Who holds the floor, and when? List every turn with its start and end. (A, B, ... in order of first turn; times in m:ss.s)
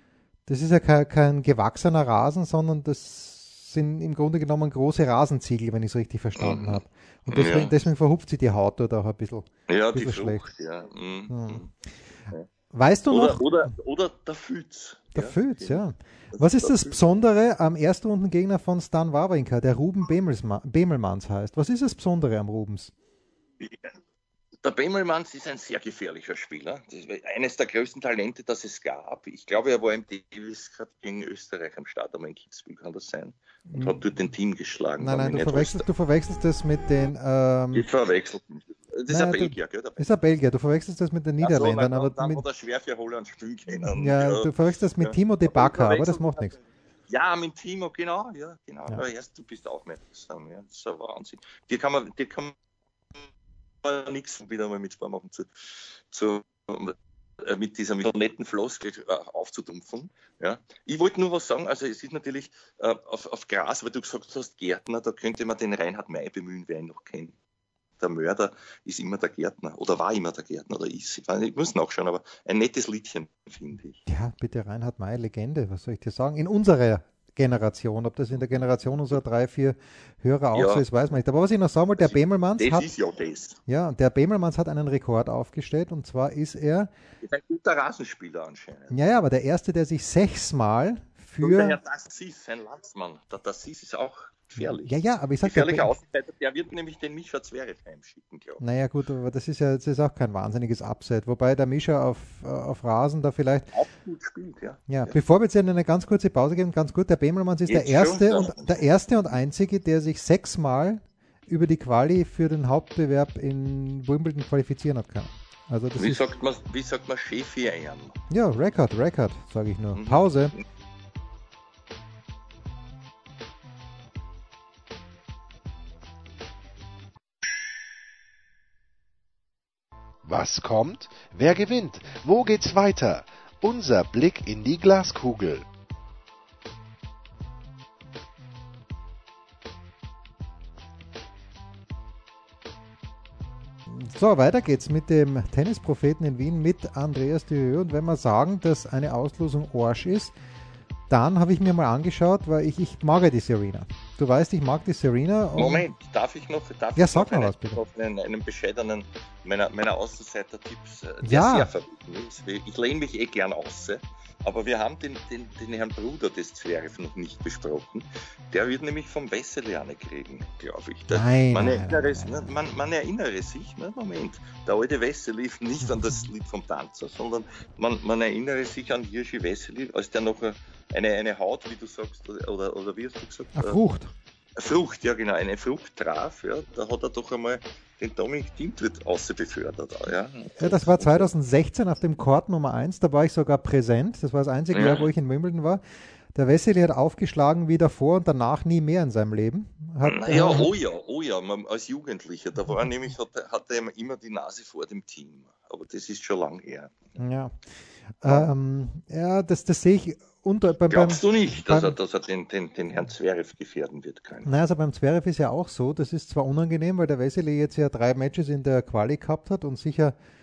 0:00.5-0:10.4 A
0:06.4-0:07.7 B
0:09.7-0:11.7 B
0:11.3-0:11.6 A
0:12.7-0:13.5 A
0:13.1-0:17.0 B
0:15.1-0:22.9 A
0:23.6-0:23.9 B
0:24.6-0:35.9 B
0:33.7-0:34.0 A
0:35.0-0:37.9 A
0:37.7-0:40.0 B
0:39.1-0:42.4 A
0:41.4-0:46.5 B
0:43.8-0:46.6 A
0:47.1-0:52.5 B
0:53.8-1:07.3 B
1:08.0-1:14.0 B
1:14.1-1:22.9 A
1:20.5-1:20.8 B
1:22.0-1:23.6 B
1:23.7-1:26.9 A
1:27.2-1:29.2 B
1:28.9-1:31.8 A
1:31.4-1:38.6 B
1:34.6-1:35.9 A
1:38.6-1:43.7 A
1:43.7-1:45.2 B
1:44.9-1:56.2 A
1:47.7-1:48.8 B
1:56.0-1:58.2 B
1:58.3-2:00.5 A
1:59.9-2:00.6 B
2:10.2-2:15.6 C
2:23.9-2:30.3 A
2:31.1-2:35.8 A
2:35.5-3:03.8 B
2:37.0-2:37.8 A
2:41.2-2:41.7 A
2:51.1-2:52.5 A
2:55.9-2:56.2 A
3:03.6-3:04.1 A
3:04.6-3:11.3 B
3:10.6-3:15.8 A
3:14.7-3:15.1 B
3:16.3-3:20.7 A
3:20.0-3:27.0 B
3:27.2-3:27.6 A
3:28.2-3:31.9 A
3:28.2-3:28.5 B
3:30.9-3:34.6 B
3:34.4-3:40.1 A